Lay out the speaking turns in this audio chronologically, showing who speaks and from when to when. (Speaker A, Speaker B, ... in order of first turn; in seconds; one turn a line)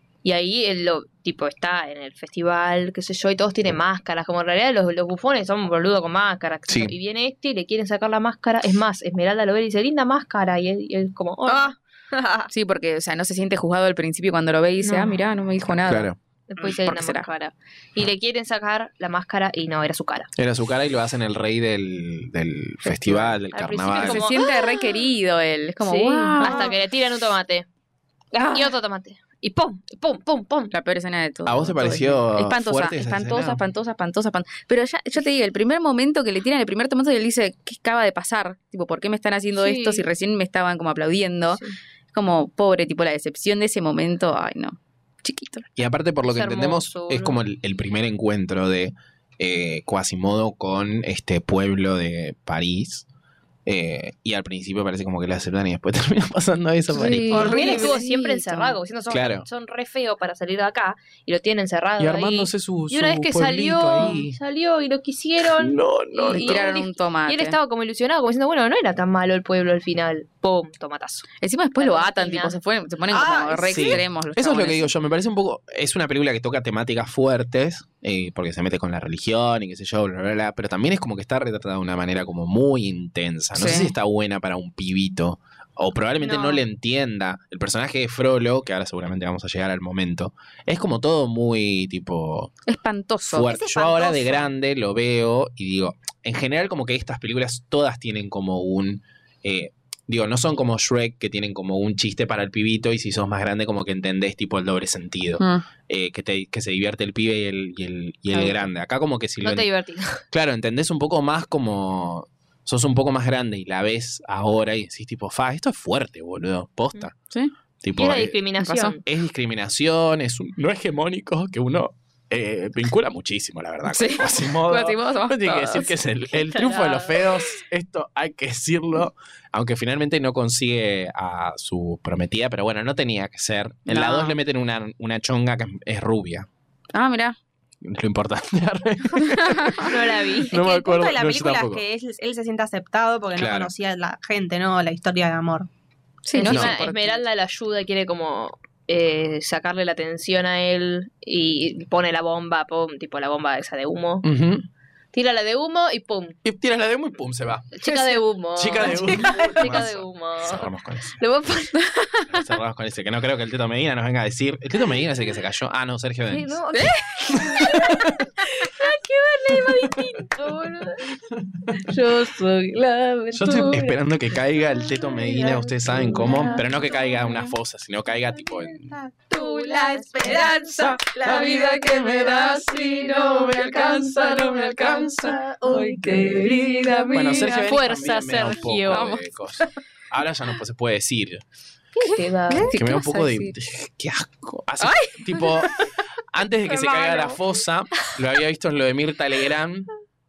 Speaker A: 0.2-11.7
Speaker B: 6.7-6.9
Speaker C: 11.5-12.5
Speaker D: 12.5-16.1
Speaker A: 14.8-15.2
Speaker B: 15.8-16.2
Speaker A: 16.5-20.3
Speaker D: 16.6-17.3
Speaker B: 20.4-24.3
Speaker D: 22.9-23.3
Speaker A: 23.5-25.0
Speaker D: 24.0-26.7
Speaker A: 25.8-27.7
Speaker C: 26.4-26.7
Speaker D: 28.4-28.7
Speaker A: 28.4-30.7
Speaker D: 30.7-45.7
Speaker B: 31.4-33.6
Speaker A: 39.6-40.0
Speaker B: 45.8-53.1
Speaker A: 46.2-47.4
Speaker B: 53.7-57.6
Speaker D: 56.9-58.8
Speaker A: 57.3-72.6
Speaker C: 57.3-58.0
Speaker B: 59.1-59.5
Speaker B: 62.0-64.4
Speaker B: 65.4-66.7
Speaker D: 66.3-67.6
Speaker D: 71.4-74.9
Speaker C: 73.1-74.0
Speaker B: 73.7-92.5
Speaker D: 83.5-84.0
Speaker C: 86.2-86.6
Speaker D: 92.7-93.5
Speaker B: 93.3-109.7
Speaker C: 93.5-94.5
Speaker D: 105.4-105.7
Speaker D: 108.3-108.7
Speaker A: 109.4-110.2
Speaker B: 110.3-117.2
Speaker B: 117.8-118.4
Speaker A: 118.0-119.0
Speaker D: 118.6-119.0
Speaker B: 119.0-136.5
Speaker D: 123.9-126.0
Speaker A: 126.6-127.1
Speaker D: 133.9-134.4
Speaker D: 136.9-137.4
Speaker B: 137.8-141.8
Speaker D: 139.4-139.8
Speaker A: 139.8-140.6
Speaker C: 140.5-145.7
Speaker B: 143.4-143.7
Speaker D: 146.2-147.2
Speaker A: 146.3-154.2
Speaker B: 146.4-146.8
Speaker B: 154.2-154.7
Speaker A: 155.1-156.4
Speaker B: 156.4-157.8
Speaker A: 157.7-162.3
Speaker B: 158.6-161.2
Speaker C: 159.1-159.5
Speaker B: 162.3-166.6
Speaker A: 166.3-171.2
Speaker D: 166.7-167.8
Speaker B: 167.3-168.2
Speaker A: 171.7-174.0
Speaker B: 173.3-179.0
Speaker A: 174.9-176.9
Speaker C: 176.1-176.6
Speaker C: 178.9-186.9
Speaker A: 179.3-189.1
Speaker D: 181.2-187.7
Speaker B: 187.1-191.4
Speaker D: 188.9-189.2
Speaker A: 192.0-192.7
Speaker D: 192.0-193.5
Speaker B: 192.7-199.9
Speaker D: 194.8-195.6
Speaker A: 196.8-197.3